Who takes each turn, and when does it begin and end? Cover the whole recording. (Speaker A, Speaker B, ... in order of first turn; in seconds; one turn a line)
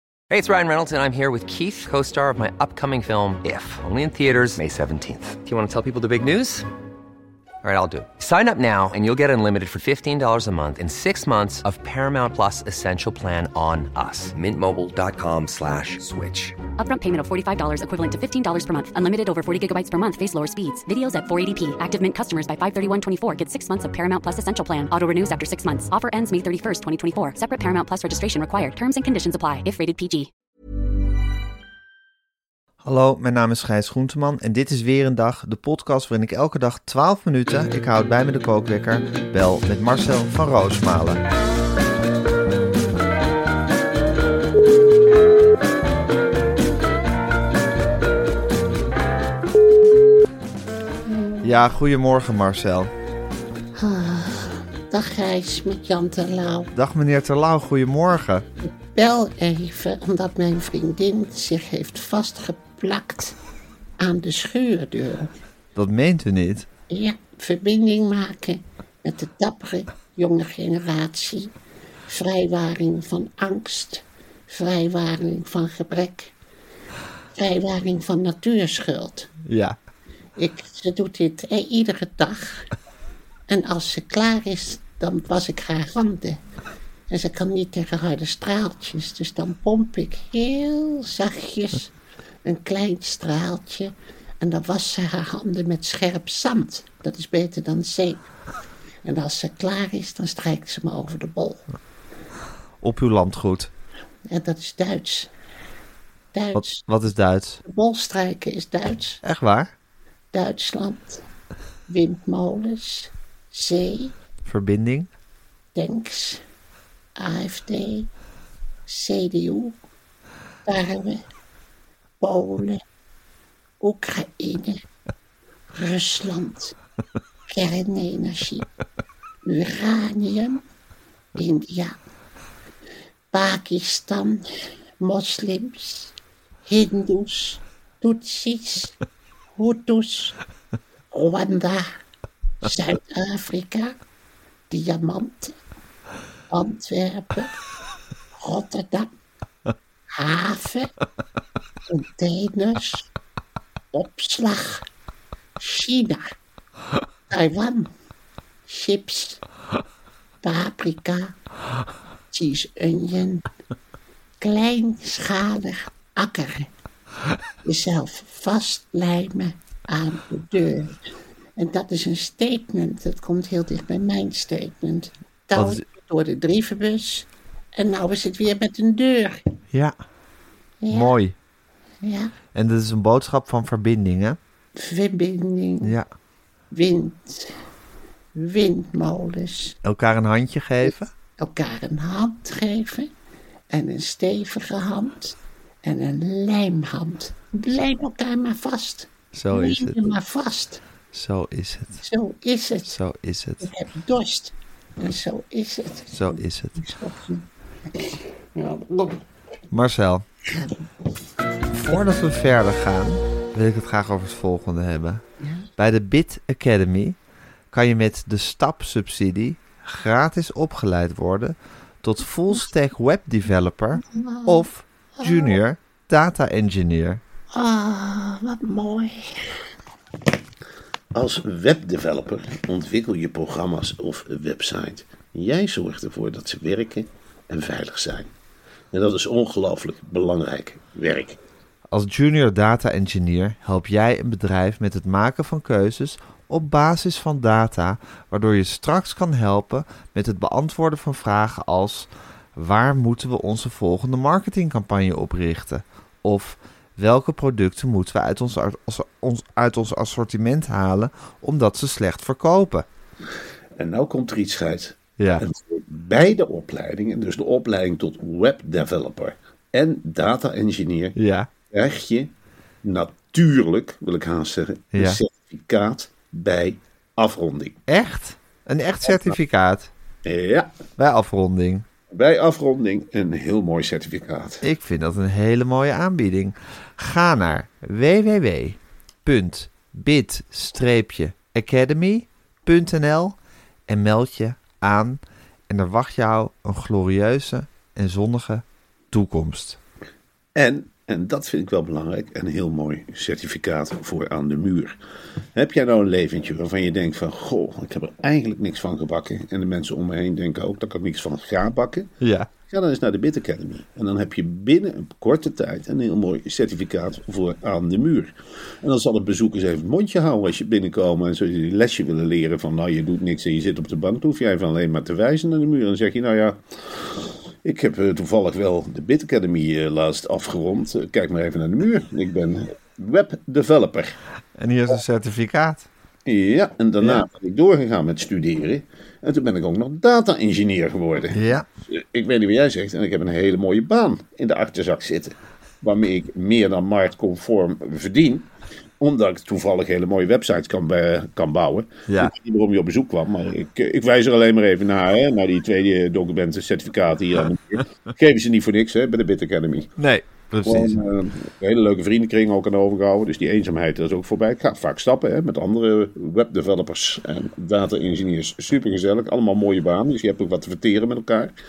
Speaker A: 0.3-6.7
Speaker A: 7.6-16.6
Speaker B: 16.8-30.3
Speaker C: 32.8-41.2
Speaker D: 51.1-51.5
Speaker C: 51.4-52.9
Speaker D: 53.8-56.7
Speaker C: 56.8-58.4
Speaker D: 58.6-63.4
Speaker D: 64.0-65.3
Speaker C: 65.8-66.7
Speaker D: 66.9-71.5
Speaker D: 72.1-76.3
Speaker D: 77.3-79.3
Speaker C: 79.5-79.8
Speaker D: 80.4-82.7
Speaker D: 83.5-86.4
Speaker D: 87.1-91.9
Speaker D: 92.5-98.3
Speaker D: 99.0-101.6
Speaker C: 102.8-103.7
Speaker D: 104.3-105.3
Speaker D: 106.3-106.8
Speaker C: 106.5-107.6
Speaker D: 107.7-109.2
Speaker C: 109.2-109.7
Speaker D: 110.3-111.2
Speaker D: 111.9-114.1
Speaker C: 114.5-115.1
Speaker D: 115.8-116.4
Speaker D: 117.2-118.1
Speaker D: 118.9-119.8
Speaker D: 120.7-121.2
Speaker D: 122.2-122.8
Speaker D: 123.8-124.8
Speaker D: 125.7-126.8
Speaker D: 127.5-128.7
Speaker D: 129.4-130.6
Speaker D: 131.4-132.0
Speaker D: 133.3-134.4
Speaker D: 135.0-136.1
Speaker D: 136.7-138.9
Speaker D: 139.6-140.4
Speaker D: 141.1-141.9
Speaker D: 142.6-144.0
Speaker D: 144.7-145.6
Speaker D: 146.5-147.5
Speaker D: 148.4-149.1
Speaker D: 150.2-150.9
Speaker D: 151.9-153.1
Speaker D: 153.9-154.8
Speaker D: 155.6-156.3
Speaker D: 157.3-157.9
Speaker D: 158.7-159.4
Speaker D: 160.4-161.3
Speaker D: 162.3-163.4
Speaker D: 164.4-166.7
Speaker D: 167.7-170.9
Speaker D: 171.6-179.4
Speaker C: 175.5-175.8
Speaker D: 180.8-181.2
Speaker C: 180.9-181.3
Speaker D: 182.0-182.3
Speaker C: 182.6-184.4
Speaker D: 184.8-186.0
Speaker C: 185.8-186.1
Speaker D: 186.7-187.6
Speaker D: 188.4-189.8
Speaker C: 189.8-191.1
Speaker D: 190.8-193.1
Speaker D: 193.7-200.8
Speaker C: 199.3-200.1
Speaker C: 201.1-202.0
Speaker D: 202.0-203.0
Speaker C: 202.9-203.7
Speaker D: 203.6-207.4
Speaker C: 206.1-206.8
Speaker D: 208.0-209.2
Speaker C: 209.7-210.2
Speaker D: 210.5-210.8
Speaker C: 211.7-215.2
Speaker D: 215.4-215.7
Speaker C: 215.8-217.2
Speaker C: 217.7-227.2
Speaker D: 224.0-225.6
Speaker D: 227.5-229.6
Speaker E: 231.1-238.3
Speaker E: 238.9-241.4
Speaker C: 241.9-262.9
Speaker E: 263.8-271.2
Speaker C: 265.2-265.4
Speaker C: 271.2-271.5
Speaker E: 271.7-272.3
Speaker E: 272.8-277.8
Speaker C: 274.9-275.2
Speaker C: 277.9-279.9
Speaker E: 279.1-279.4
Speaker E: 280.2-280.7
Speaker C: 281.0-281.9
Speaker E: 282.1-284.6
Speaker C: 284.6-293.4
Speaker C: 293.9-299.8
Speaker E: 300.6-304.9
Speaker E: 305.6-312.1
Speaker C: 312.2-312.5
Speaker E: 312.7-326.6
Speaker E: 327.6-334.2
Speaker C: 334.6-335.9
Speaker E: 336.3-348.5
Speaker C: 337.0-337.3
Speaker C: 341.3-341.7
Speaker E: 349.0-359.9
Speaker C: 352.1-352.3
Speaker C: 360.0-361.0
Speaker E: 360.6-371.5